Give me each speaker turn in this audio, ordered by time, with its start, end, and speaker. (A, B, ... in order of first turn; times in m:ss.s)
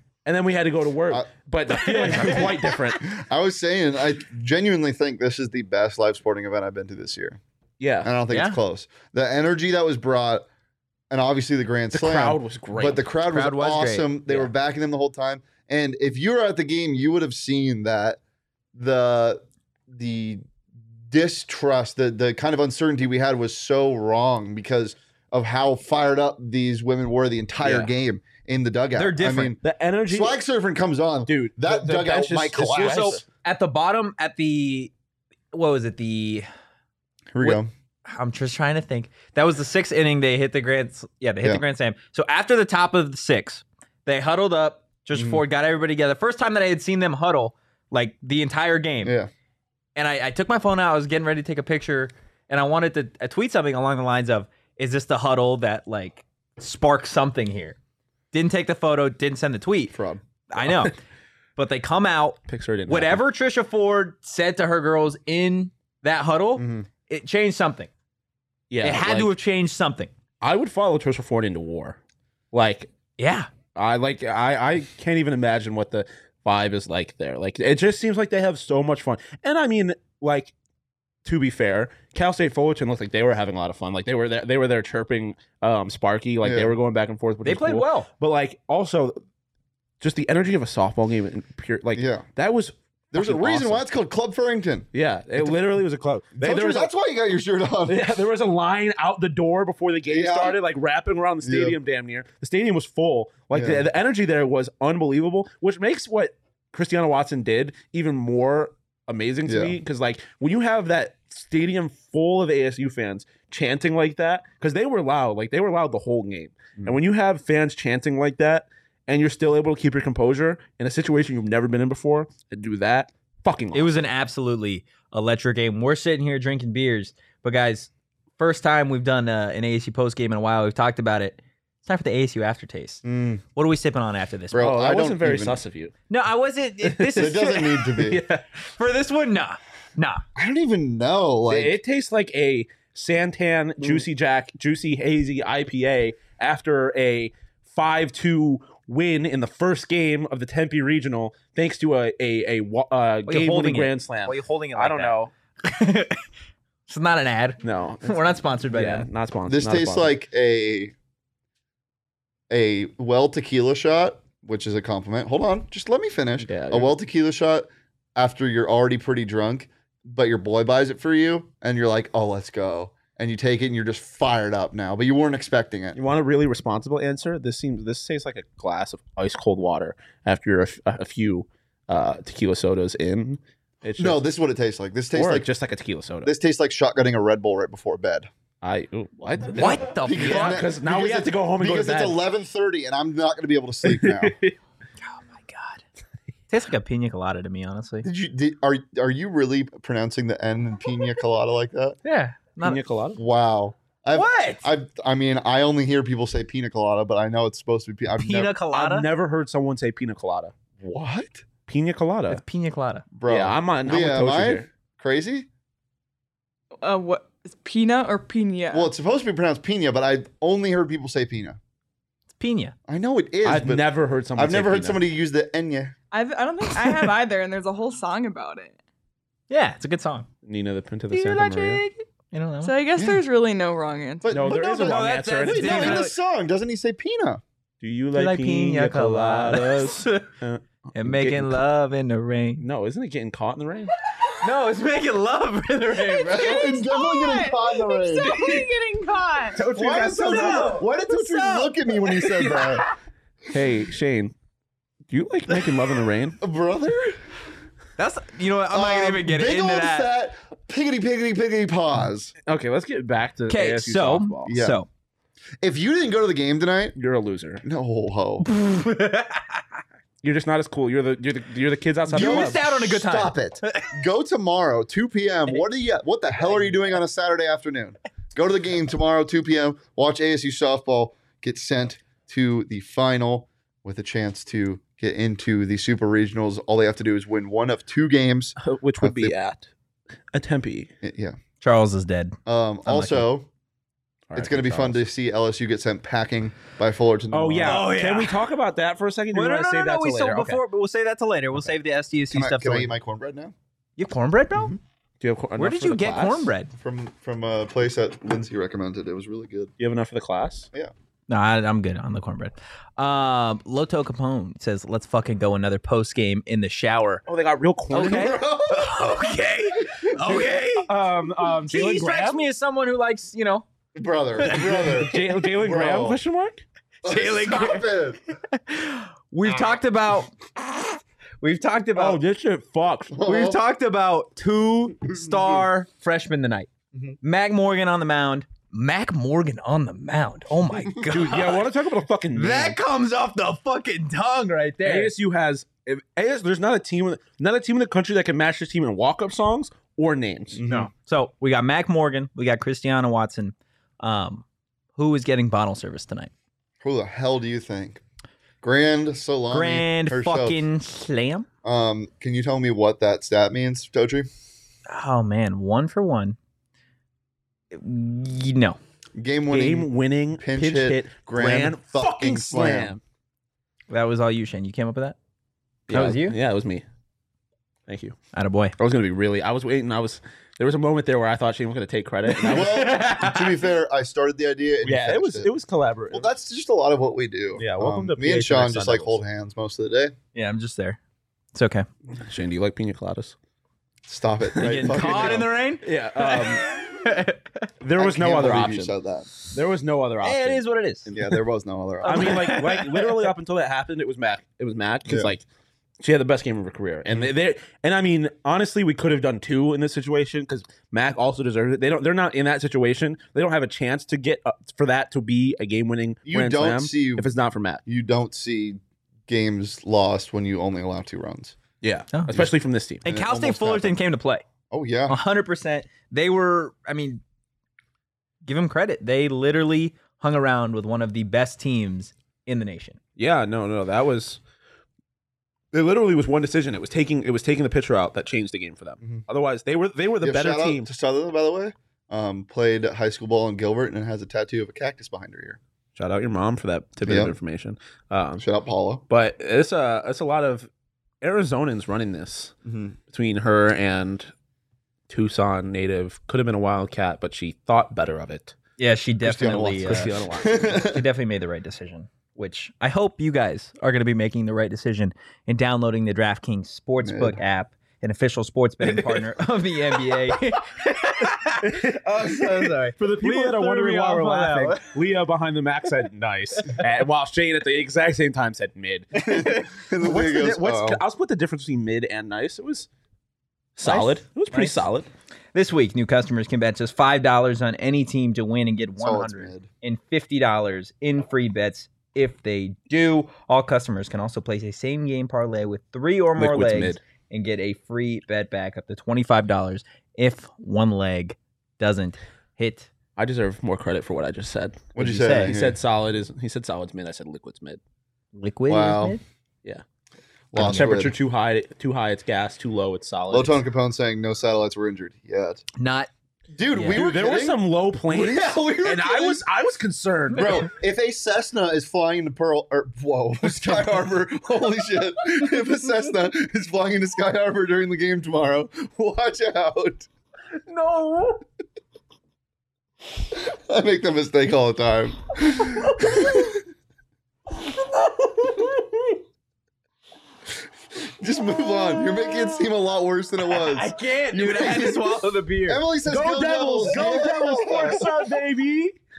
0:00.2-0:03.1 A
0:01.9-0:07.4 B
0:07.8-0:08.1 A
0:08.0-0:10.5 B
0:08.3-0:08.6 C
0:11.1-0:18.2 B
0:11.9-0:13.0 A
0:13.3-0:14.5 C
0:18.7-0:20.4 B
0:21.1-0:33.2 B
0:27.6-0:27.9 A
0:29.0-0:29.6 C
0:29.6-0:30.4 A
0:31.2-0:33.2 A
0:32.7-0:34.9 C
0:35.5-0:36.5 C
0:37.3-0:37.7 B
0:37.4-0:49.2 C
0:45.1-0:45.4 B
0:49.0-0:49.3 B
0:50.0-0:57.8 C
0:58.3-0:59.9 C
0:59.9-1:00.2 B
1:00.5-1:00.9 C
1:01.6-1:07.9 C
1:02.5-1:03.2 A
1:06.6-1:06.9 B
1:08.7-1:09.3 A
1:08.8-1:10.1 C
1:10.4-1:12.0 A
1:12.5-1:12.9 A
1:13.2-1:13.5 C
1:13.7-1:20.5 A
1:21.2-1:29.2 A
1:26.4-1:26.7 B
1:27.4-1:28.1 C
1:30.0-1:33.8 A
1:31.9-1:32.2 B
1:33.1-1:35.8 B
1:34.9-1:36.9 A
1:36.4-1:38.1 B
1:37.8-2:03.9 A
1:40.1-1:40.6 B
1:41.4-1:41.8 B
1:43.5-1:43.8 B
1:49.4-1:49.8 B
2:03.7-2:13.0 C
2:13.0-2:13.4 B
2:13.5-2:14.7 C
2:14.5-2:15.6 B
2:14.6-2:15.9 A
2:16.1-2:17.8 C
2:16.8-2:18.4 A
2:17.1-2:18.2 B
2:18.6-2:20.2 C
2:20.4-2:21.8 B
2:21.5-2:35.3 A
2:33.3-2:36.2 C
2:36.9-2:39.1 C
2:37.6-2:40.1 A
2:39.5-2:40.9 B
2:42.5-2:56.0 B
2:46.4-2:47.0 A
2:55.9-3:04.2 A
3:04.0-3:05.5 B
3:05.1-3:06.3 A
3:06.2-3:08.3 B
3:08.6-3:12.2 A
3:09.5-3:10.6 C
3:09.6-3:14.3 B
3:13.8-3:14.5 A
3:15.0-3:15.8 C
3:16.5-3:18.0 C
3:18.0-3:22.0 B
3:22.0-3:22.8 C
3:22.6-3:23.2 A
3:23.2-3:28.5 B
3:24.1-3:24.7 C
3:28.2-3:29.1 C
3:28.7-3:30.5 A
3:30.8-3:31.4 B
3:31.7-3:32.4 A
3:32.3-3:33.0 C
3:33.1-3:35.5 B
3:33.3-3:34.6 A
3:36.8-3:38.9 D
3:38.7-3:41.6 B
3:42.3-3:42.7 C
3:42.9-3:45.9 B
3:43.4-3:45.0 A
3:46.1-3:48.8 D
3:46.8-3:47.1 C
3:49.5-3:50.3 C
3:50.4-3:51.8 A
3:51.1-3:52.8 C
3:52.6-3:54.3 D
3:53.0-3:53.2 B
3:54.2-3:57.4 B
3:54.3-3:56.1 A
3:54.5-3:56.1 C
3:57.8-4:01.5 A
3:58.1-4:00.3 C
4:00.9-4:02.6 C
4:02.6-4:03.9 A
4:04.4-4:06.6 C
4:06.1-4:08.6 B
4:06.2-4:09.6 D
4:08.2-4:08.7 C
4:09.4-4:11.6 C
4:09.6-4:12.8 B
4:10.2-4:10.8 D
4:11.4-4:11.6 D
4:12.2-4:12.8 C
4:13.5-4:14.3 A
4:15.1-4:16.4 A
4:16.4-4:17.2 B
4:18.0-4:20.1 C
4:18.7-4:22.3 B
4:22.4-4:24.5 A
4:23.5-4:24.9 C
4:24.4-4:24.8 B
4:25.6-4:27.0 B
4:27.0-4:27.6 A
4:27.6-4:28.4 B
4:28.4-4:29.6 C
4:30.2-4:32.6 A
4:32.1-4:33.9 C
4:32.1-4:49.3 B
4:48.6-4:49.7 A
4:50.3-4:50.9 A
4:51.0-4:51.4 B
4:51.6-4:53.2 C
4:52.4-4:53.5 B
4:54.3-4:55.0 A
4:54.4-4:57.9 B
4:57.3-5:00.6 A
4:57.6-4:58.4 C
4:59.3-5:02.9 C
5:02.3-5:03.5 B
5:04.0-5:04.7 C
5:04.5-5:04.8 B
5:05.2-5:06.5 A
5:05.6-5:06.7 C
5:06.7-5:09.7 B
5:09.8-5:10.7 A
5:11.3-5:17.2 C
5:17.3-5:18.4 A
5:17.9-5:20.9 C
5:18.0-5:19.3 B
5:19.8-5:20.4 B
5:20.2-5:22.4 A
5:21.6-5:23.6 C
5:23.9-5:26.2 B
5:24.4-5:25.2 C
5:25.0-5:26.6 A
5:27.0-5:27.8 C
5:27.0-5:28.2 B
5:28.5-5:32.2 C
5:29.4-5:29.8 A
5:31.9-5:33.1 A
5:33.1-5:33.6 B
5:33.2-5:36.7 C
5:35.1-5:35.6 B
5:37.2-5:41.7 C
5:41.1-5:42.8 A
5:42.3-5:45.1 C
5:44.8-5:50.6 A
5:50.6-5:50.9 B
5:50.6-5:54.4 C
5:55.0-5:56.3 C
5:56.8-5:58.0 B
5:58.6-6:00.6 B
5:59.5-6:01.4 C
6:01.6-6:04.3 B
6:04.9-6:06.4 C
6:07.7-6:08.8 C
6:09.2-6:12.9 B
6:09.5-6:13.0 A
6:13.9-6:15.2 C
6:15.9-6:16.8 A
6:15.9-6:16.4 C
6:17.9-6:18.2 A
6:18.3-6:18.7 C
6:18.8-6:23.0 A
6:22.3-6:23.6 C
6:22.5-6:25.5 B
6:24.8-6:26.3 A
6:26.1-6:30.1 B
6:27.6-6:29.2 A
6:30.3-6:31.0 C
6:31.5-6:31.8 C
6:32.1-6:33.3 A
6:34.0-6:35.5 B
6:34.5-6:36.6 A
6:34.6-6:37.6 C
6:37.8-6:38.9 A
6:38.0-6:39.3 B
6:39.5-6:40.6 A
6:40.2-6:41.1 C
6:41.1-6:42.5 B
6:42.0-6:43.3 C
6:42.0-6:45.4 A
6:45.1-6:45.3 B
6:46.0-6:57.8 A
6:56.2-6:57.3 B
6:57.8-7:01.6 B
7:01.8-7:03.0 A
7:03.0-7:04.0 B
7:03.0-7:04.4 C
7:04.7-7:05.2 B
7:05.1-7:07.2 C
7:08.4-7:13.0 C
7:13.2-7:14.4 A
7:15.7-7:20.9 A
7:20.2-7:25.6 B
7:26.0-7:28.4 A
7:27.0-7:27.3 B
7:28.4-7:29.0 B
7:29.1-7:30.7 A
7:31.2-7:32.5 A
7:32.6-7:32.9 B
7:33.1-7:34.3 A
7:35.1-7:38.6 A
7:38.8-7:54.9 C
7:39.2-7:41.0 B
7:39.7-7:40.7 A
7:47.0-7:47.4 B
7:51.6-7:59.1 A
7:52.2-7:52.7 B
7:59.1-8:01.0 B
7:59.2-7:59.7 C
8:00.0-8:02.9 A
8:03.8-8:05.1 A
8:03.8-8:04.8 C
8:05.5-8:22.9 C
8:09.0-8:09.7 B
8:16.4-8:17.0 A
8:23.2-8:27.8 A
8:25.0-8:25.8 B
8:25.0-8:25.5 C
8:28.3-8:29.2 C
8:28.7-8:29.2 B
8:30.5-8:31.1 B
8:30.5-8:33.6 A
8:33.3-8:35.6 B
8:35.8-8:36.1 C
8:36.5-8:39.4 B
8:36.7-8:37.0 C
8:36.9-8:40.7 A
8:40.3-8:50.1 B
8:50.6-8:51.4 A
8:53.3-8:56.6 B
9:00.9-9:08.0 B
9:02.0-9:02.5 C
9:03.4-9:05.8 C
9:06.1-9:08.9 A
9:06.9-9:08.3 C